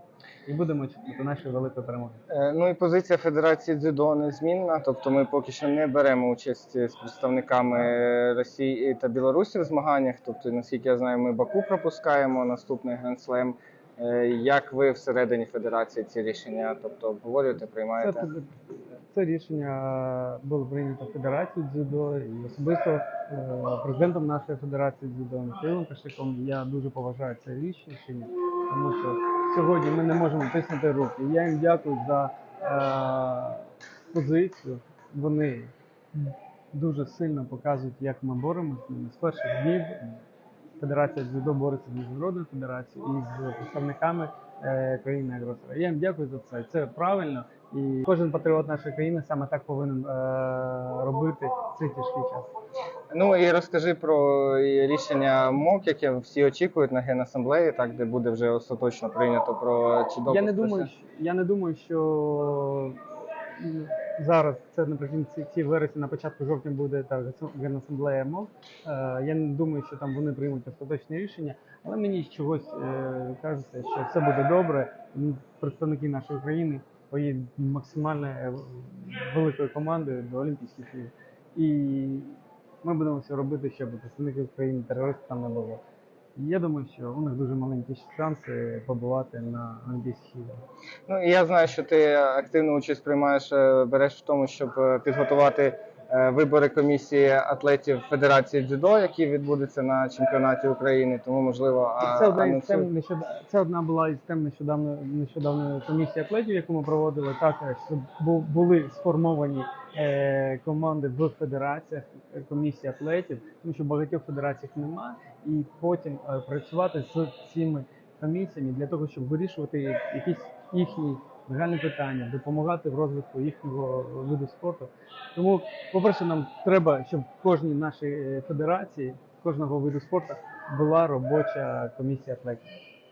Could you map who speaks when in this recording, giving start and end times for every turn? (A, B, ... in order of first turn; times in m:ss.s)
0:00.4-0:02.2 A
0:02.3-0:18.3 B
0:18.0-0:18.5 A
0:19.1-0:40.1 A
0:40.8-0:52.4 A
0:53.1-1:00.9 B
1:00.3-1:03.0 A
1:03.6-1:25.8 A
1:26.4-1:30.6 A
1:31.1-1:42.9 B
1:42.0-2:12.6 A